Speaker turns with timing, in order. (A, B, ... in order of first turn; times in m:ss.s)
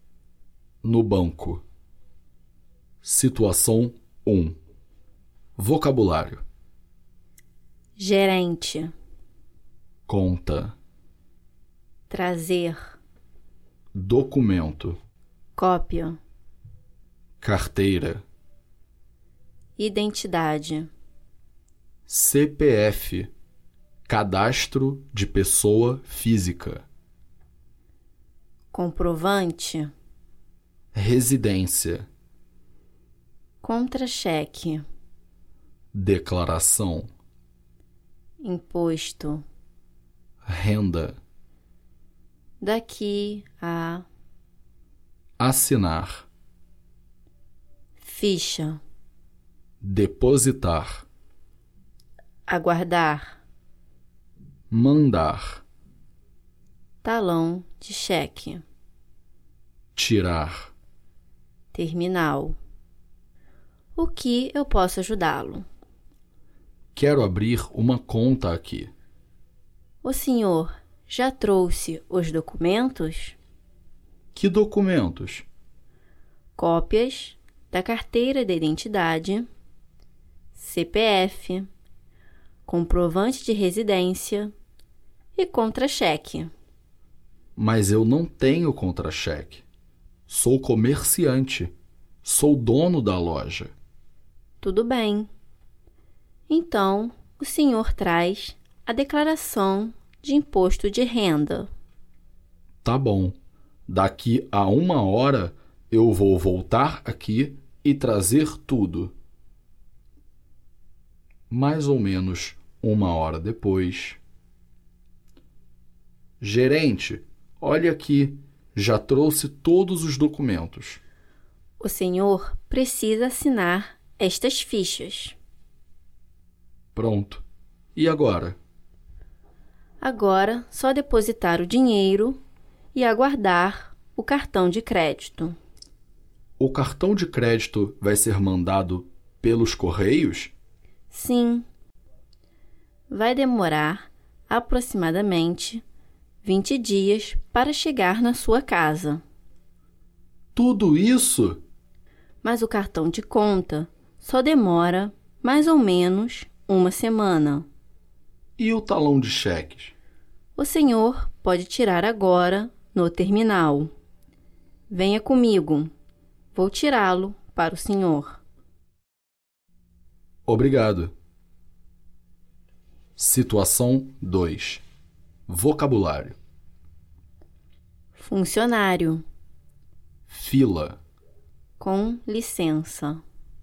0:00.8-0:01.6 A
0:03.0-0:04.6 A
0:05.6-0:06.4 A
0:08.0-0:08.9 B
0:10.1-0:10.8 A
0:12.1-0:13.0 B
0:13.9-0:15.0 A
0:15.6-0:16.2 B
0:17.4-0:18.2 A
0:19.8-0:20.9 B
0:22.1-0:23.3 A
0:24.1-0:26.8 A
0:28.7-0:29.9 B
0:30.9-0:32.0 A
0:33.6-0:34.8 B
0:35.9-0:37.1 A
0:38.4-0:39.4 B
0:40.4-0:41.2 A
0:42.6-0:44.0 B
0:45.4-0:46.3 A
0:48.0-0:48.8 B
0:49.8-0:51.0 A
0:52.5-0:53.4 B
0:54.7-0:55.6 A
0:57.0-0:58.6 B
1:00.0-1:00.7 A
1:01.7-1:02.6 B
1:04.0-1:05.6 B
1:06.9-1:08.9 A
1:10.0-1:13.4 B
1:14.3-1:15.4 A
1:16.6-1:19.5 B
1:20.5-1:21.7 B
1:22.6-1:24.5 B
1:25.3-1:26.5 B
1:27.6-1:29.6 A
1:30.3-1:31.7 A
1:32.2-1:33.7 A
1:34.6-1:35.3 B
1:36.5-1:41.7 B
1:42.8-1:43.4 A
1:43.9-1:49.1 A
1:51.5-1:54.2 A
1:56.4-2:01.0 A
2:01.8-2:05.4 B
2:06.9-2:07.4 A
2:07.9-2:08.6 A
2:10.0-2:12.4 B
2:12.9-2:15.5 B
2:16.6-2:20.5 A
2:21.1-2:21.6 B
2:23.1-2:25.8 B
2:26.4-2:29.2 B
2:30.5-2:31.6 A
2:32.4-2:37.6 B
2:38.6-2:39.9 A
2:40.6-2:43.9 B
2:44.9-2:45.9 B
2:46.5-2:48.4 B
2:50.4-2:51.1 A
2:53.2-2:54.8 A
2:55.5-2:56.4 A
2:58.2-2:59.2 B
3:00.3-3:01.0 A
3:01.8-3:03.2 B